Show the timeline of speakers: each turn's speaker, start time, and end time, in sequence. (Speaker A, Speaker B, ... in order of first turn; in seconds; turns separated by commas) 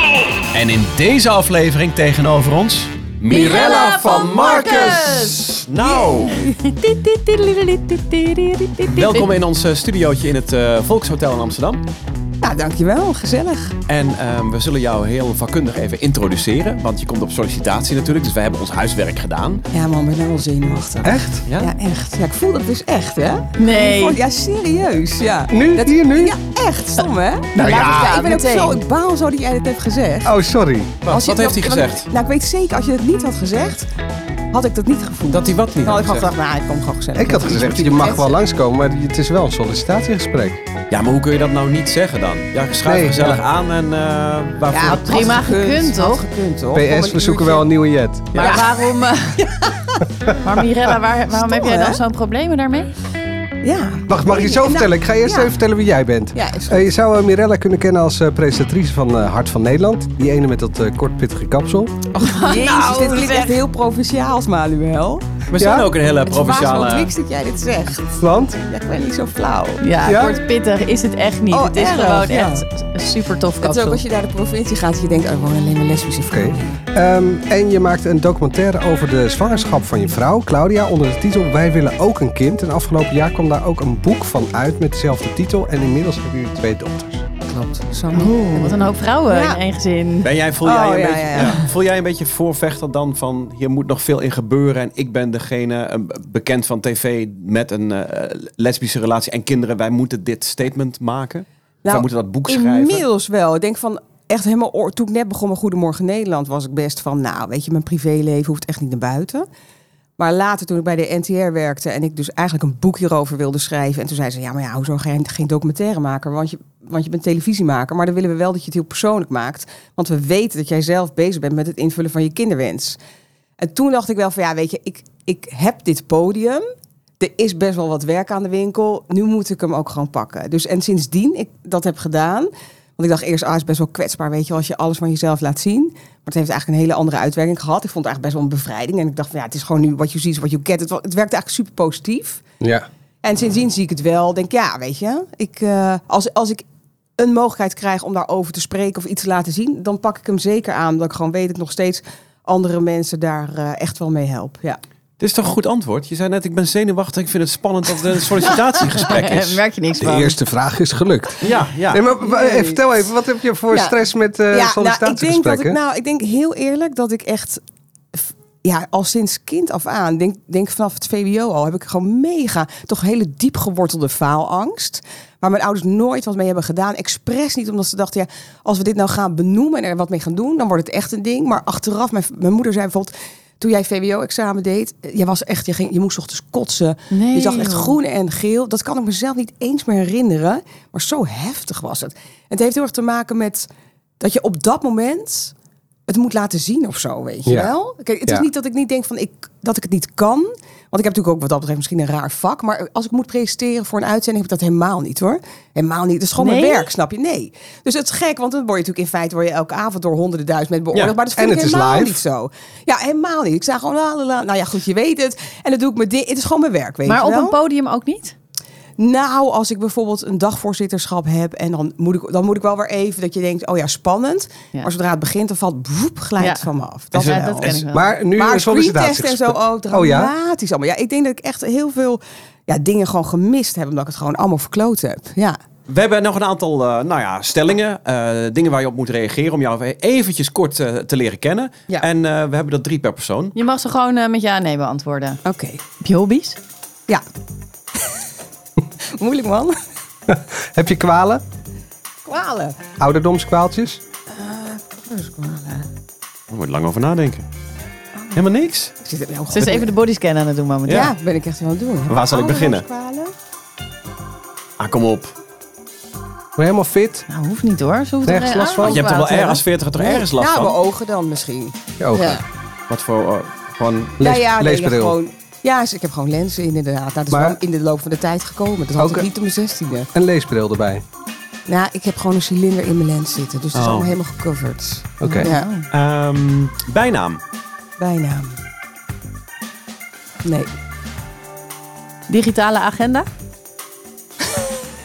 Speaker A: 0.4-6.5, Speaker B: 3.3-5.0, Speaker C: 3.3-5.5, Speaker D: 5.8-6.6, Speaker C: 6.4-9.4, Speaker A: 8.8-11.8, Speaker D: 12.4-13.8, Speaker A: 13.9-19.6, Speaker D: 19.7-30.3, Speaker B: 21.0-21.4, Speaker A: 21.5-21.7, Speaker C: 23.6-24.2, Speaker B: 25.5-26.4, Speaker B: 27.6-28.2, Speaker C: 27.6-28.8, Speaker B: 30.2-30.9, Speaker A: 31.0-32.1, Speaker D: 31.1-33.9, Speaker D: 34.5-38.3, Speaker A: 35.3-36.3, Speaker B: 37.1-40.6, Speaker A: 40.9-45.4, Speaker B: 42.8-43.4, Speaker D: 44.7-47.7, Speaker C: 44.9-46.2, Speaker B: 46.7-48.6, Speaker C: 48.3-49.4, Speaker D: 48.3-50.4, Speaker C: 50.3-52.9, Speaker D: 51.3-52.0, Speaker D: 53.6-55.5, Speaker B: 54.1-62.0, Speaker D: 56.3-56.9, Speaker D: 62.1-65.3, Speaker C: 62.2-63.6, Speaker A: 65.5-67.1, Speaker B: 65.6-65.9, Speaker D: 66.1-69.8, Speaker B: 68.2-68.6, Speaker C: 69.8-74.0, Speaker B: 70.0-70.4, Speaker D: 71.5-72.6, Speaker D: 73.6-76.7, Speaker B: 76.3-87.2, Speaker D: 87.5-89.6, Speaker C: 88.1-90.3, Speaker A: 90.2-103.0, Speaker D: 90.6-91.6, Speaker D: 101.8-109.5, Speaker D: 110.2-123.0, Speaker D: 123.6-126.6, Speaker D: 127.2-142.4, Speaker B: 142.6-142.8, Speaker D: 143.2-146.6, Speaker D: 147.2-154.8, Speaker A: 155.2-160.3, Speaker C: 159.0-160.3, Speaker B: 160.0-165.8, Speaker A: 161.4-162.0, Speaker D: 162.2-162.8, Speaker D: 163.7-164.0, Speaker D: 164.5-167.6, Speaker D: 168.1-193.7, Speaker C: 187.1-187.9, Speaker D: 194.2-195.5, Speaker D: 196.1-217.6, Speaker B: 197.4-197.7, Speaker C: 206.4-206.9, Speaker B: 211.3-212.2, Speaker C: 217.1-218.3, Speaker D: 219.0-227.8, Speaker C: 226.4-228.2, Speaker A: 227.1-227.8, Speaker B: 227.9-230.3, Speaker D: 228.3-235.6, Speaker A: 235.9-243.5, Speaker C: 243.5-245.4, Speaker D: 245.4-245.8, Speaker C: 246.0-246.6, Speaker D: 249.2-249.7, Speaker B: 250.3-251.4, Speaker D: 252.2-252.9, Speaker B: 253.0-254.0, Speaker D: 254.3-255.9, Speaker A: 256.5-257.4, Speaker D: 258.1-258.4, Speaker A: 258.3-258.9, Speaker D: 259.0-259.9, Speaker C: 259.5-261.1, Speaker A: 260.9-261.1, Speaker D: 260.9-263.3, Speaker A: 262.1-262.8, Speaker A: 264.8-265.3, Speaker B: 266.6-267.2, Speaker C: 267.3-269.6, Speaker B: 268.2-269.0, Speaker A: 268.8-270.8, Speaker D: 269.1-272.4, Speaker B: 272.0-272.4, Speaker A: 272.9-274.2, Speaker B: 274.2-275.2, Speaker D: 274.2-280.1, Speaker B: 277.3-277.6, Speaker B: 279.0-279.3, Speaker B: 280.1-281.0, Speaker D: 281.7-285.9, Speaker A: 283.7-284.2, Speaker B: 285.2-285.5, Speaker C: 285.2-285.7, Speaker A: 285.9-287.4, Speaker D: 288.0-288.6, Speaker D: 290.4-290.7, Speaker C: 292.3-293.3, Speaker D: 294.4-294.7